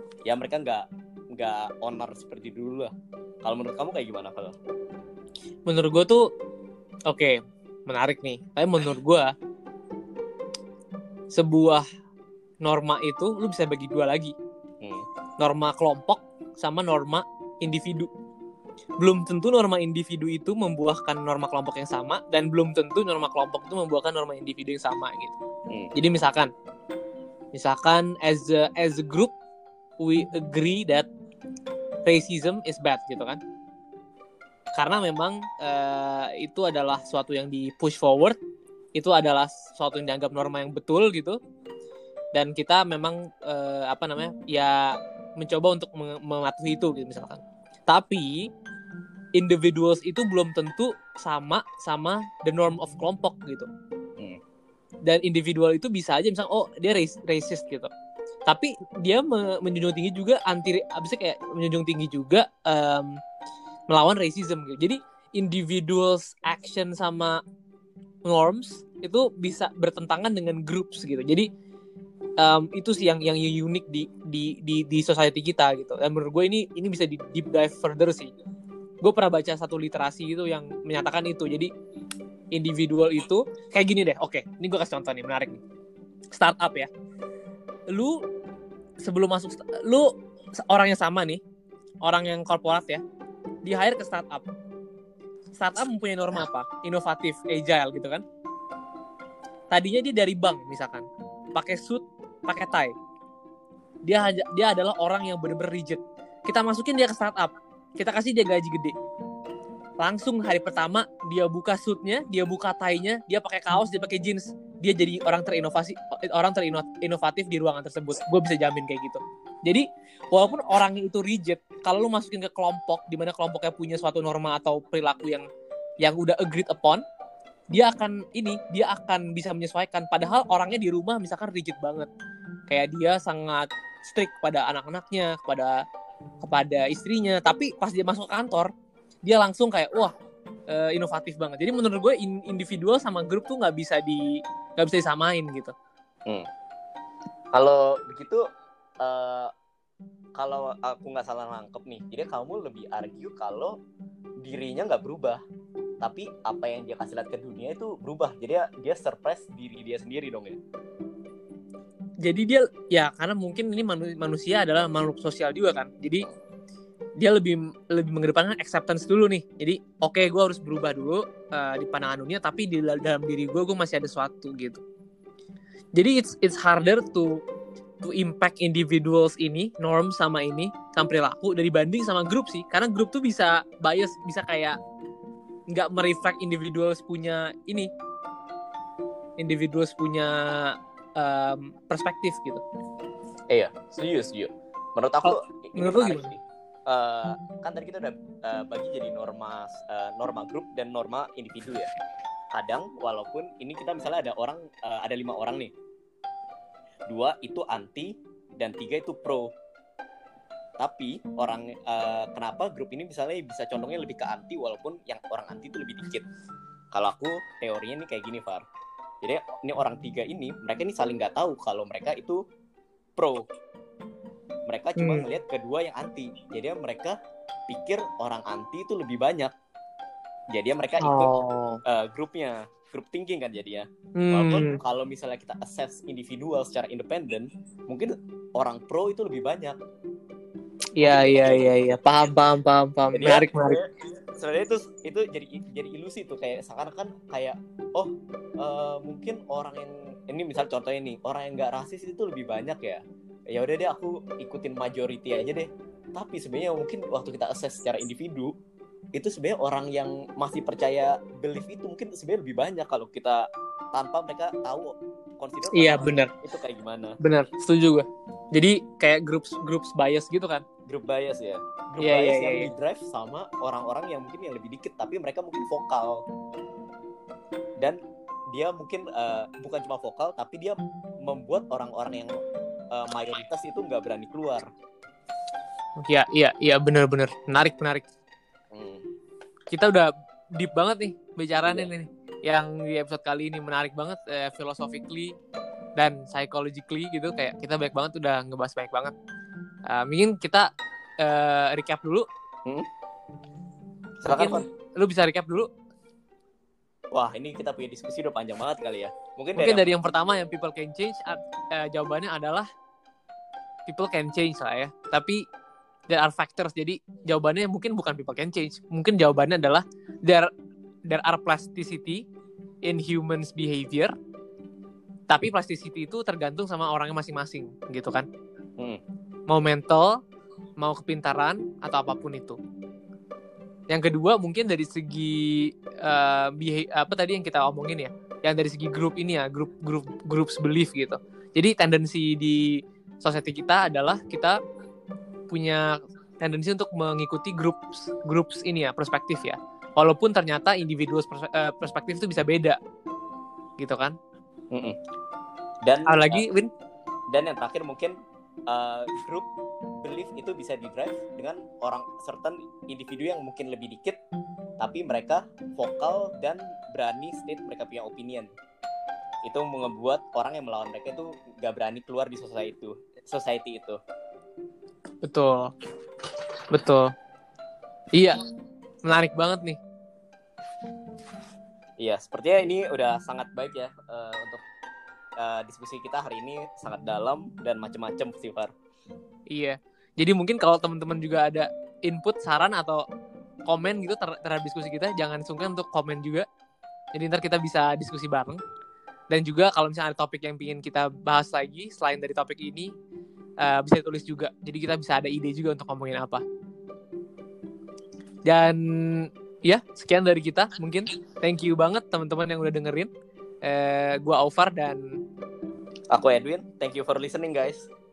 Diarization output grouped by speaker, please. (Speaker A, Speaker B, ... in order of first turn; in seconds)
Speaker A: 0.3-2.9, 3.4-4.5, 14.8-15.1, 147.5-148.4, 149.0-149.5, 150.4-153.8, 154.4-155.4, 156.0-160.6, 193.5-201.9, 202.5-205.7, 207.1-209.5, 210.8-216.3, 216.9-218.7, 219.2-222.4, 223.2-223.5, 224.7-227.2, 227.7-229.5, 230.5-231.3, 231.8-239.8, 241.0-242.0, 243.1-253.0, 253.5-258.5, 259.1-267.2, 270.9-276.2, 278.5-282.3, 282.9-284.7, 288.7-289.0, 304.2-304.6, 307.1-309.9, 354.7-355.0, 355.9-356.4, 357.3-358.1, 358.7-359.5, 360.0-364.2, 364.8-368.5, 369.5-374.0, 382.0-384.6, 385.4-388.7, 416.1-417.9
Speaker B: 5.7-6.2, 7.1-9.3, 11.3-11.9, 12.6-14.3, 15.4-18.1, 19.0-25.4, 25.9-26.5, 27.5-29.3, 30.0-31.1, 32.0-33.4, 34.8-38.4, 39.0-41.4, 42.4-48.5, 49.4-53.7, 55.1-57.9, 58.5-63.2, 63.9-67.4, 68.2-71.5, 72.4-78.3, 79.0-81.7, 82.5-85.6, 86.3-86.9, 87.9-88.2, 89.0-91.4, 92.0-93.0, 93.7-94.5, 95.6-98.2, 99.7-102.9, 104.1-108.9, 110.0-125.5, 126.0-127.0, 127.7-132.1, 132.7-135.8, 136.4-138.7, 139.2-140.1, 140.7-145.7, 162.2-166.3, 167.2-174.8, 176.0-177.4, 178.0-184.8, 185.7-187.9, 189.4-192.6, 195.2-196.3, 225.0-225.3, 231.0-231.8, 234.2-234.8, 241.0-243.8, 265.7-266.3, 267.2-270.6, 272.0-272.7, 286.1-288.0, 289.7-295.4, 296.0-299.1, 299.9-300.7, 301.2-302.3, 304.3-305.7, 309.6-312.7, 313.9-315.4, 316.1-320.5, 321.1-322.2, 322.8-324.1, 325.3-328.3, 329.5-330.2, 330.8-332.6, 333.9-344.6, 345.5-352.8, 353.8-354.2, 356.1-356.7, 375.2-375.7, 376.7-377.1, 379.1-379.8, 389.5-393.0, 393.7-396.5, 397.1-398.6, 399.3-402.9, 403.6-406.4, 408.5-413.1, 413.6-415.0